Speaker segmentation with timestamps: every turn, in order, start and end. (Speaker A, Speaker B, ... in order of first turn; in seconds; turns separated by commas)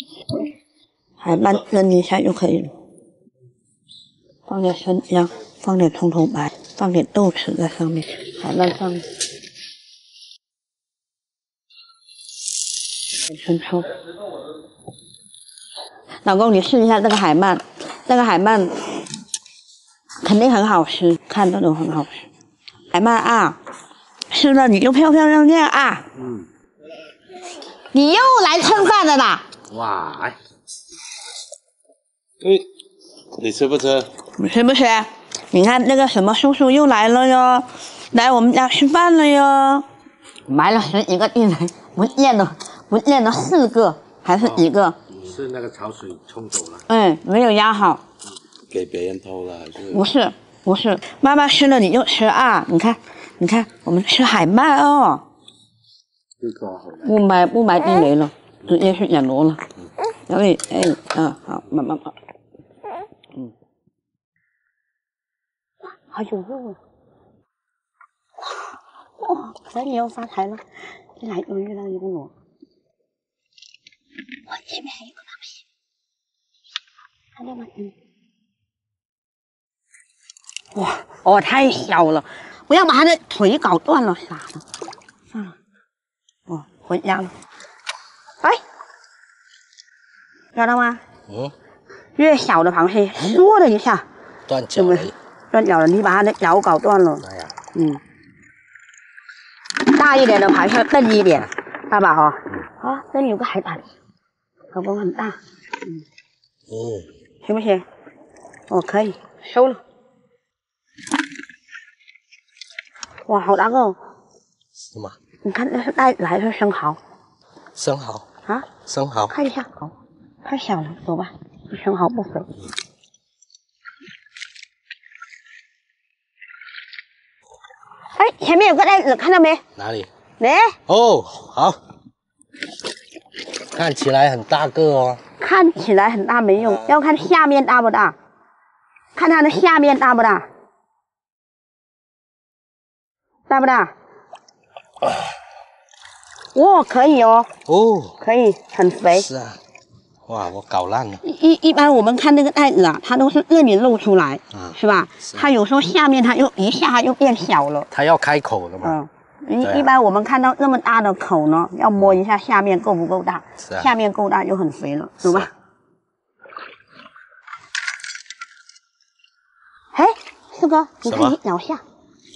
Speaker A: 1.2-2.7, Speaker A: 4.5-9.0, Speaker A: 13.2-13.9, Speaker A: 16.2-18.9, Speaker A: 20.2-22.2, Speaker A: 22.9-23.6, Speaker A: 24.3-26.0, Speaker B: 26.2-26.5, Speaker A: 27.9-29.4, Speaker B: 29.7-30.4, Speaker B: 33.3-34.1, Speaker A: 34.4-39.8, Speaker A: 40.5-45.0, Speaker B: 44.4-46.8, Speaker A: 46.9-48.0, Speaker B: 48.7-50.0, Speaker A: 49.9-55.2, Speaker B: 56.4-57.1, Speaker A: 57.0-59.6, Speaker A: 60.3-62.1, Speaker A: 66.1-66.8, Speaker A: 69.2-70.6, Speaker A: 71.2-72.3, Speaker A: 74.5-75.5, Speaker A: 77.3-77.9, Speaker A: 80.7-84.6, Speaker A: 86.5-87.3, Speaker A: 90.5-91.0, Speaker B: 91.3-91.5, Speaker A: 92.2-94.0, Speaker B: 94.5-95.1, Speaker A: 94.8-98.0, Speaker B: 97.2-97.5, Speaker A: 99.8-103.9, Speaker A: 104.7-106.0, Speaker B: 106.7-107.1, Speaker A: 107.4-107.8, Speaker A: 108.7-109.8, Speaker A: 113.3-114.0, Speaker A: 115.4-117.0, Speaker B: 117.8-118.2, Speaker B: 118.8-119.3, Speaker A: 119.3-119.9, Speaker A: 120.4-122.5, Speaker A: 128.2-129.6, Speaker B: 129.8-130.1, Speaker A: 130.4-130.8, Speaker B: 130.9-131.8, Speaker B: 133.7-135.2, Speaker A: 135.4-138.1, Speaker B: 136.6-136.9, Speaker A: 139.2-140.4, Speaker A: 143.5-143.9, Speaker A: 146.5-147.5, Speaker B: 147.7-148.1, Speaker A: 148.2-149.3, Speaker B: 149.2-149.6, Speaker B: 150.3-151.2, Speaker A: 151.2-157.9, Speaker B: 154.5-155.4, Speaker B: 157.9-158.9, Speaker A: 158.8-165.5, Speaker B: 159.6-159.9, Speaker B: 163.6-163.9, Speaker B: 165.2-165.5, Speaker A: 169.9-171.8, Speaker B: 171.1-171.3